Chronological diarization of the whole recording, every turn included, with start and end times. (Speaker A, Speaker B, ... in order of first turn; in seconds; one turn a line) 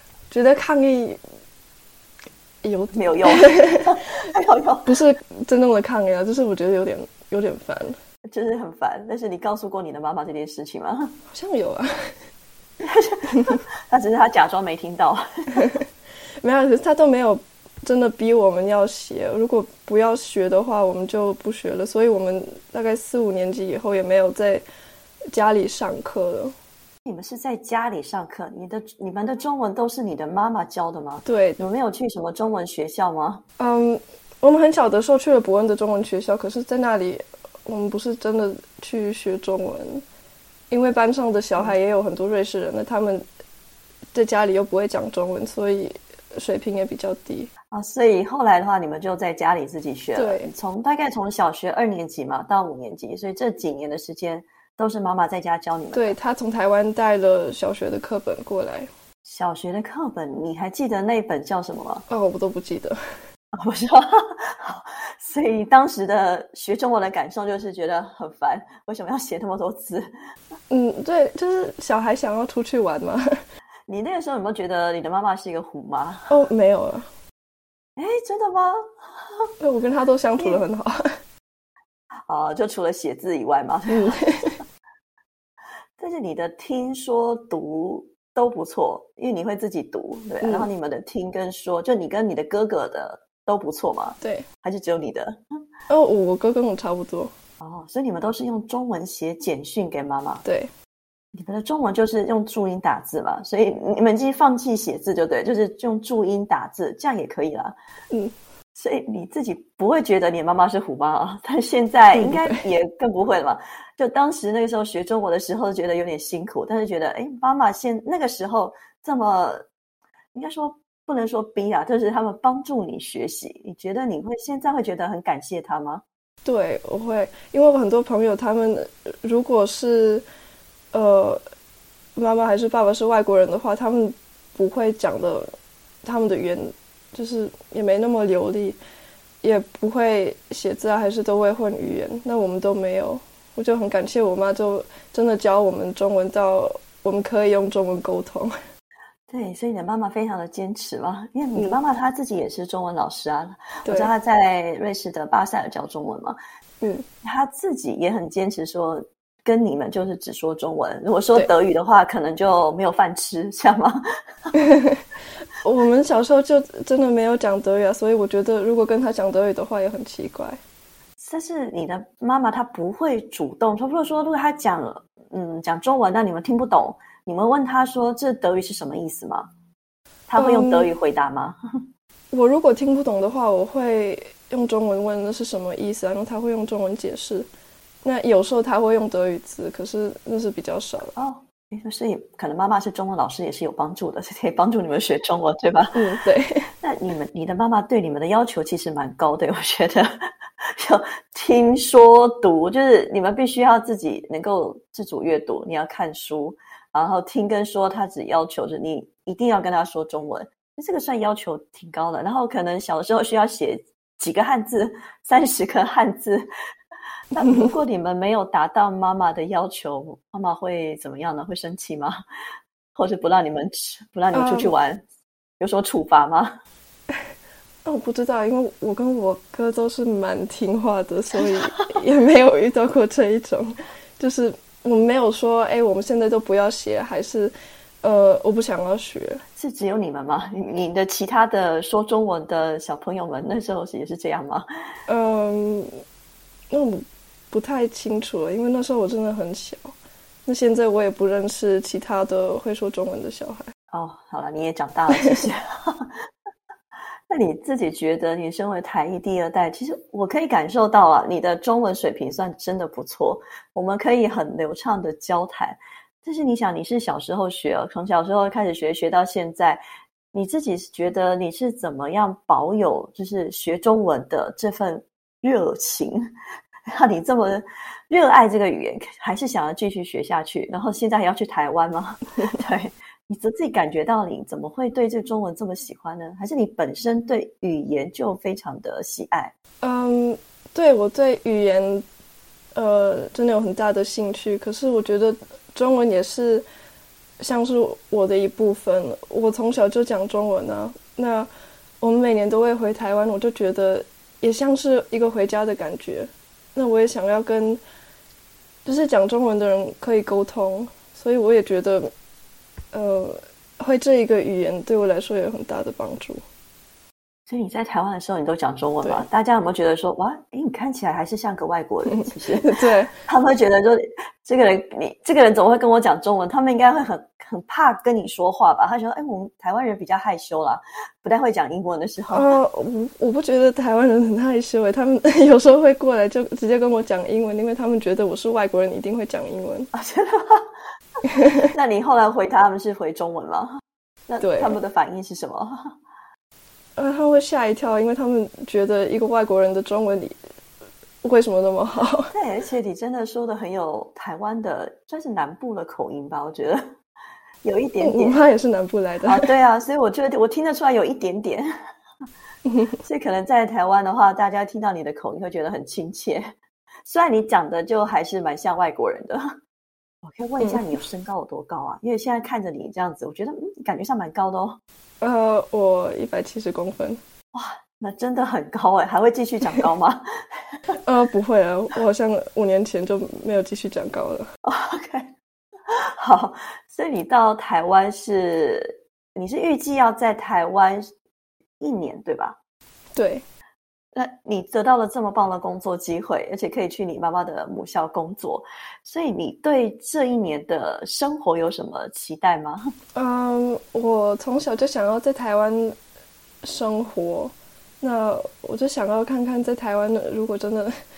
Speaker A: 0.3-1.2
Speaker A: 2.6-4.0
Speaker B: 2.9-4.9
Speaker A: 4.8-8.0
Speaker B: 8.3-11.1
Speaker A: 11.3-12.1
Speaker B: 12.8-15.6
Speaker A: 16.4-24.6
Speaker A: 25.3-26.5
Speaker B: 27.0-33.4
Speaker A: 31.2-31.6
Speaker A: 33.6-40.0
Speaker A: 40.7-43.2
Speaker A: 44.1-47.5
Speaker B: 47.7-56.1
Speaker A: 50.1-50.5
Speaker A: 55.9-58.9
Speaker B: 59.2-62.0
Speaker A: 62.1-63.0
Speaker B: 63.5-70.1
Speaker A: 70.7-73.4
Speaker B: 73.9-76.3
Speaker A: 76.3-77.1
Speaker B: 78.0-78.8
Speaker A: 79.6-81.1
Speaker B: 82.3-84.1
Speaker A: 83.9-84.6
Speaker B: 86.0-95.4
Speaker A: 90.4-90.7
Speaker A: 95.9-97.3
Speaker B: 97.6-100.4
Speaker A: 100.4-100.7
Speaker B: 101.3-107.7
Speaker B: 108.7-119.6
Speaker A: 112.1-112.6
Speaker B: 120.3-126.0
Speaker A: 126.4-130.2
Speaker A: 130.9-131.4
Speaker A: 132.2-135.5
Speaker A: 136.0-138.8
Speaker A: 139.4-148.6
Speaker B: 149.3-156.4
Speaker A: 153.8-154.1
Speaker B: 157.2-164.0
Speaker A: 164.5-165.0
Speaker A: 165.6-170.6
Speaker B: 171.2-179.5
Speaker B: 180.3-181.6
Speaker A: 180.3-180.9
Speaker A: 182.3-187.5
Speaker A: 188.0-191.1
Speaker B: 191.2-195.9
Speaker A: 195.9-196.7
Speaker B: 196.8-216.5
Speaker B: 217.3-222.2
Speaker B: 222.9-225.0
Speaker A: 224.3-224.7
Speaker B: 225.6-226.5
Speaker A: 227.8-239.4
Speaker B: 239.6-244.7
Speaker A: 245.1-246.0
Speaker A: 246.7-249.9
Speaker A: 250.4-253.7
Speaker B: 253.9-256.1
Speaker B: 257.3-269.8
Speaker B: 270.3-276.3
Speaker B: 276.9-289.5
Speaker A: 289.8-292.0
Speaker A: 292.7-296.6
Speaker A: 297.4-301.5
Speaker A: 302.0-307.8
Speaker A: 308.8-312.1
Speaker A: 312.9-316.4
Speaker B: 317.5-322.7
Speaker A: 322.1-323.1
Speaker B: 323.2-332.5
Speaker A: 332.3-339.9
Speaker B: 339.9-340.7
Speaker A: 341.4-341.6
Speaker B: 341.7-345.9
Speaker A: 344.4-344.8
Speaker A: 347.0-350.4
Speaker A: 351.2-352.3
Speaker B: 352.3-356.9
Speaker B: 357.6-358.4
Speaker A: 358.0-359.4
Speaker B: 359.2-361.7
Speaker A: 362.7-362.9
Speaker B: 363.0-366.5
Speaker B: 367.0-369.5
Speaker B: 370.2-374.8
Speaker A: 375.2-377.2
Speaker B: 377.5-380.2
Speaker A: 381.0-384.5
Speaker B: 384.6-385.3
Speaker B: 385.9-391.1
Speaker B: 391.8-392.6
Speaker A: 393.1-393.4
Speaker B: 394.1-402.9
Speaker A: 403.1-406.0
Speaker A: 406.6-411.0